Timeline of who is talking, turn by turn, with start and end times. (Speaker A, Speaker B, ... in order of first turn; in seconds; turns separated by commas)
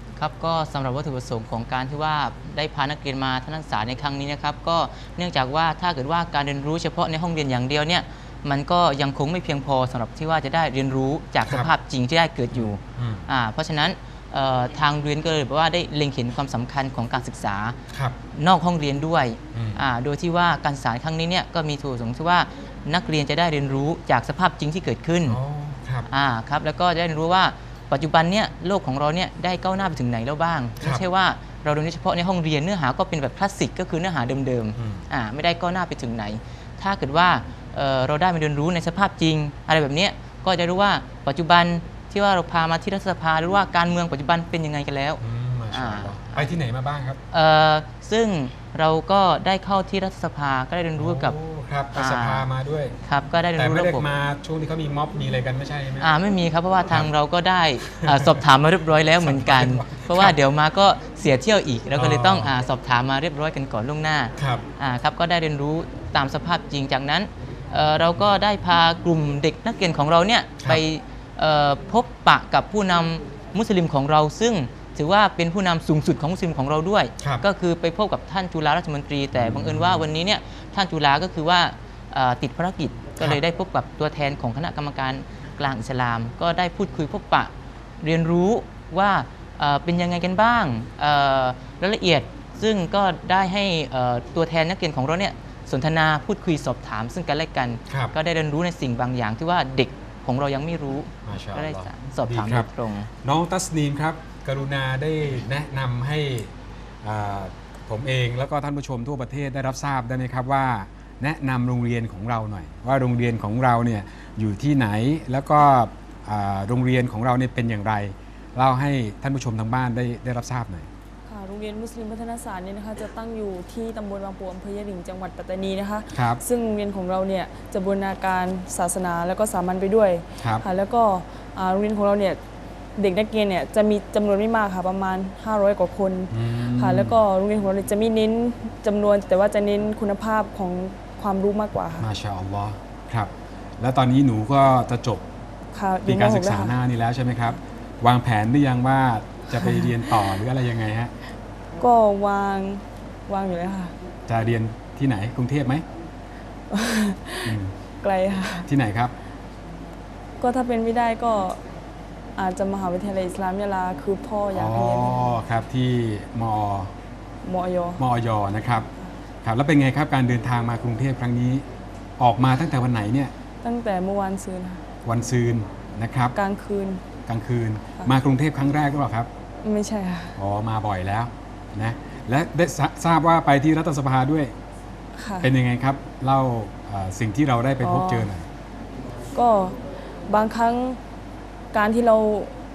Speaker A: 0.2-17.8, Speaker B: 11.4-11.7, Speaker B: 12.5-13.2, Speaker B: 17.9-18.1, Speaker A: 18.3-25.4, Speaker B: 19.5-19.8, Speaker B: 25.2-26.1, Speaker A: 26.1-46.5, Speaker B: 34.8-35.0, Speaker B: 45.2-47.2, Speaker A: 47.3-51.4, Speaker B: 51.0-53.0, Speaker A: 52.0-52.5, Speaker A: 53.0-54.0, Speaker B: 53.6-56.1, Speaker A: 56.0-103.1, Speaker B: 57.9-58.4, Speaker B: 59.2-60.3, Speaker B: 62.0-62.5, Speaker B: 64.4-64.6, Speaker B: 79.3-80.1, Speaker B: 101.2-102.7, Speaker B: 103.2-120.9, Speaker C: 121.3-132.4, Speaker B: 126.1-126.4, Speaker C: 133.0-142.1, Speaker B: 136.3-137.2, Speaker B: 142.0-145.2, Speaker C: 145.7-146.7, Speaker B: 146.1-151.1, Speaker C: 149.6-150.2, Speaker C: 151.8-153.9, Speaker B: 154.3-155.8, Speaker C: 156.7-158.7, Speaker B: 157.4-157.7, Speaker B: 158.7-159.1, Speaker C: 160.4-161.6, Speaker C: 162.3-165.2, Speaker B: 164.5-166.9, Speaker C: 167.4-168.0, Speaker B: 168.0-168.9, Speaker B: 169.4-171.6, Speaker B: 172.2-173.3, Speaker C: 173.6-174.8, Speaker B: 175.0-176.3, Speaker C: 176.3-177.0, Speaker B: 177.3-179.3, Speaker C: 179.6-180.3, Speaker B: 180.4-184.5, Speaker C: 185.2-185.5, Speaker B: 185.4-188.5, Speaker C: 187.8-188.3, Speaker C: 189.3-191.0, Speaker C: 191.7-192.5